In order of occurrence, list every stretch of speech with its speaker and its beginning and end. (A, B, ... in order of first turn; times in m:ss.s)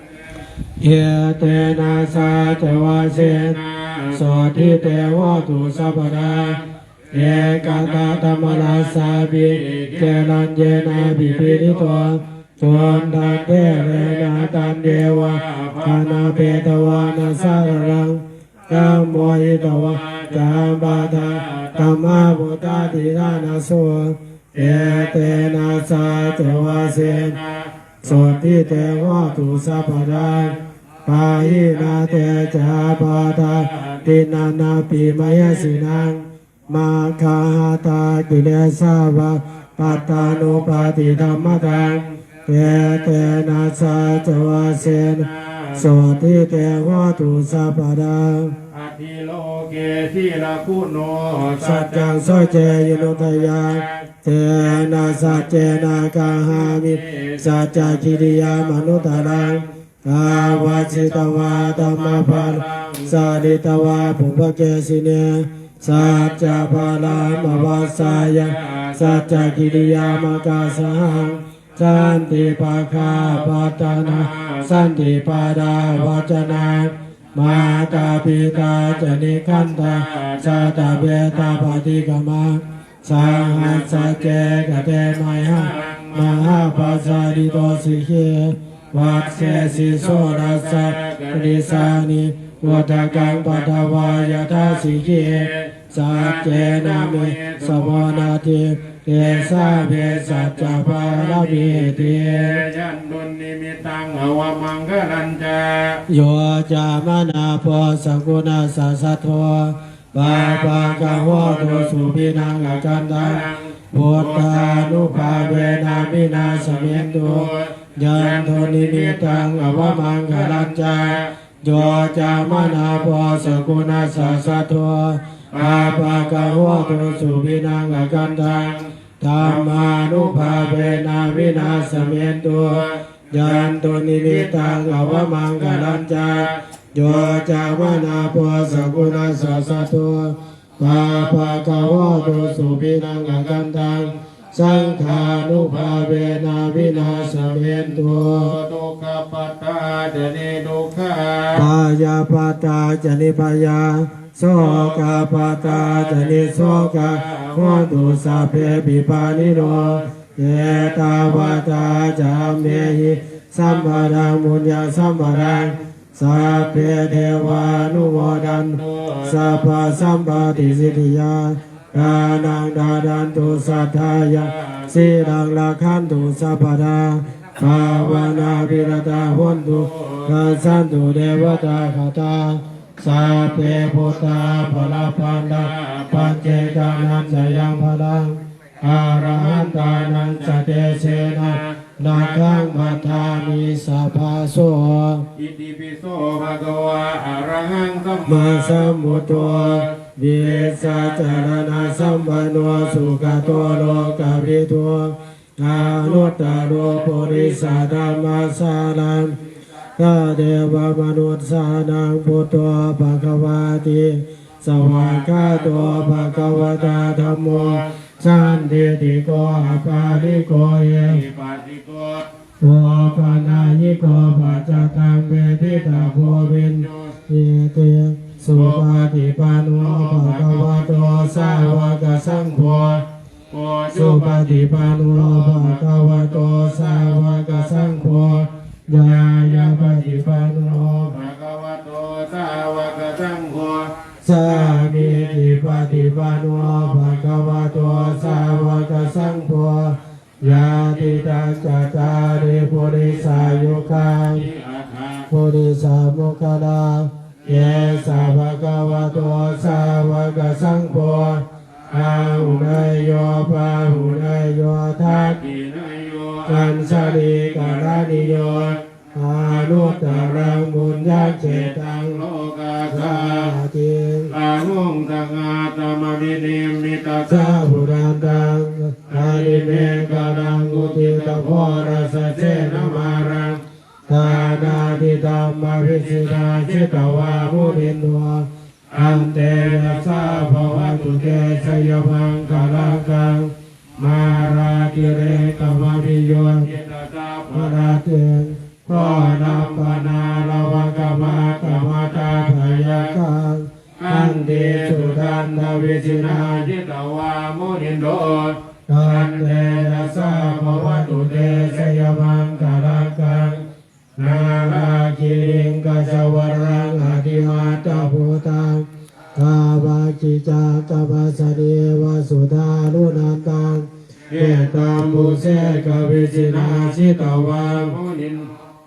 0:00.8-0:03.6 A
0:03.0-0:18.0 B
0:04.1-0:06.6 A
0:07.1-0:27.4 A
0:18.7-0:23.3 B
0:24.5-0:30.5 B
0:28.0-0:48.5 A
0:31.3-0:34.2 B
0:35.3-0:35.9 B
0:39.8-0:46.2 B
0:48.7-0:59.7 B
0:51.6-1:42.6 A
1:00.2-1:03.5 B
1:05.9-1:15.0 B
1:15.9-1:16.2 B
1:17.4-1:21.8 B
1:23.2-1:24.6 B
1:25.3-1:27.9 B
1:29.0-1:32.0 B
1:32.6-1:38.4 B
1:39.1-1:46.0 B
1:46.1-2:28.5 A
1:50.2-2:04.2 B
2:05.5-2:18.3 B
2:18.9-2:19.8 B
2:20.8-2:22.9 B
2:23.9-2:31.7 B
2:31.5-3:15.2 A
2:34.6-2:38.7 B
2:39.2-2:40.1 B
2:41.0-2:44.3 B
2:45.0-2:51.0 B
2:53.4-2:55.4 B
2:57.6-3:00.9 B
3:03.4-3:07.9 B
3:08.8-3:13.7 B
3:15.3-3:24.3 B
3:18.2-3:29.4 A
3:25.7-3:28.3 B
3:30.0-3:41.2 A
3:34.8-3:38.0 B
3:39.6-3:40.5 B
3:41.0-3:42.3 B
3:42.6-3:53.0 A
3:43.1-3:45.0 B
3:45.6-3:47.2 B
3:48.5-3:49.1 B
3:49.7-3:52.0 B
3:53.5-4:09.2 B
3:53.9-4:01.1 A
4:04.2-4:14.5 A
4:13.0-4:15.3 B
4:15.3-4:25.4 A
4:17.5-4:19.4 B
4:21.9-4:23.0 B
4:25.0-4:28.8 B
4:26.5-4:32.2 A
4:29.5-4:33.6 B
4:32.9-4:34.3 A
4:34.3-4:37.8 B
4:37.2-4:43.5 A
4:39.1-4:43.6 B
4:44.1-4:56.8 A
4:44.1-4:45.1 B
4:45.8-4:47.9 B
4:48.9-4:53.2 B
4:54.0-4:58.0 B
4:57.5-5:06.7 A
4:58.9-5:03.2 B
5:04.0-5:13.6 B
5:08.9-5:13.6 A
5:14.2-5:18.1 B
5:14.2-5:28.0 A
5:24.3-5:28.5 B